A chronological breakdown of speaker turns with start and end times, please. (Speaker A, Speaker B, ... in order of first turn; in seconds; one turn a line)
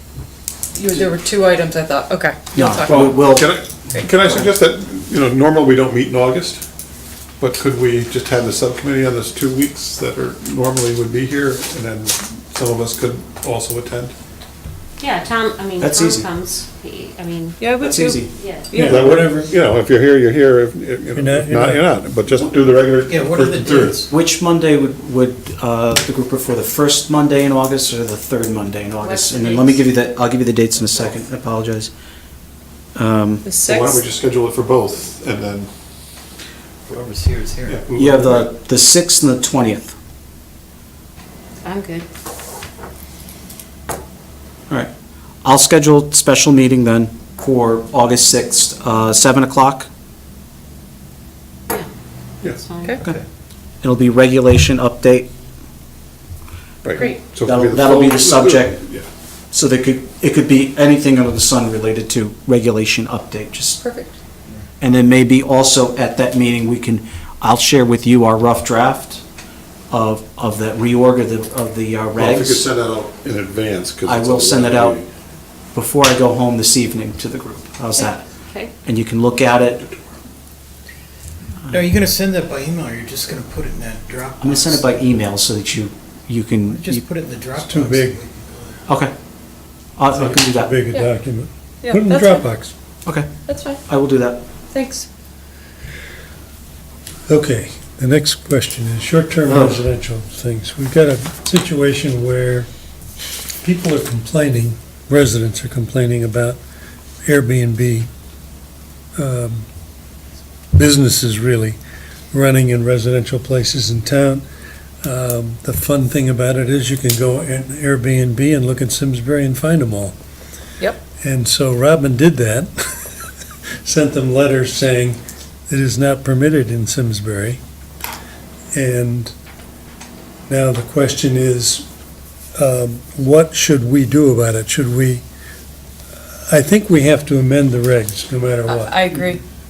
Speaker A: 0.7-3.1
Speaker B: 2.5-3.6
Speaker C: 2.9-6.6
Speaker C: 7.4-14.1
Speaker D: 15.0-17.6
Speaker B: 15.8-16.3
Speaker A: 17.6-19.3
Speaker B: 17.8-18.3
Speaker D: 18.4-18.7
Speaker E: 18.7-19.5
Speaker C: 18.8-24.0
Speaker E: 21.1-21.9
Speaker F: 23.1-24.1
Speaker B: 24.1-31.9
Speaker D: 29.0-29.8
Speaker B: 33.0-33.5
Speaker A: 33.4-34.0
Speaker C: 33.6-35.7
Speaker F: 36.9-37.8
Speaker C: 37.6-38.5
Speaker B: 37.9-40.0
Speaker D: 41.6-42.0
Speaker B: 45.4-49.9
Speaker D: 52.4-53.0
Speaker B: 53.8-55.3
Speaker C: 56.8-59.1
Speaker A: 56.9-57.2
Speaker B: 57.4-58.8
Speaker B: 59.5-63.8
Speaker A: 63.8-64.1
Speaker B: 64.8-69.2
Speaker B: 69.9-72.7
Speaker C: 72.1-75.1
Speaker B: 74.0-75.0
Speaker B: 75.7-78.2
Speaker D: 78.0-78.7
Speaker B: 78.8-79.9
Speaker F: 81.7-84.9
Speaker B: 84.4-87.0
Speaker F: 86.7-88.8
Speaker E: 87.6-88.2
Speaker B: 88.9-89.1
Speaker B: 90.0-90.8
Speaker E: 90.1-92.7
Speaker A: 91.8-92.5
Speaker B: 93.0-93.3
Speaker A: 93.5-93.8
Speaker B: 93.8-94.4
Speaker A: 94.7-95.1
Speaker E: 97.3-102.7
Speaker B: 99.5-99.8
Speaker E: 103.6-106.6
Speaker E: 107.2-108.1
Speaker E: 109.2-109.7
Speaker E: 110.7-111.8
Speaker E: 112.3-114.4
Speaker E: 115.0-120.1
Speaker E: 121.2-122.7
Speaker E: 123.8-127.6
Speaker E: 128.7-129.3
Speaker E: 130.5-131.8
Speaker E: 132.6-135.2
Speaker E: 136.5-139.3
Speaker A: 138.7-139.4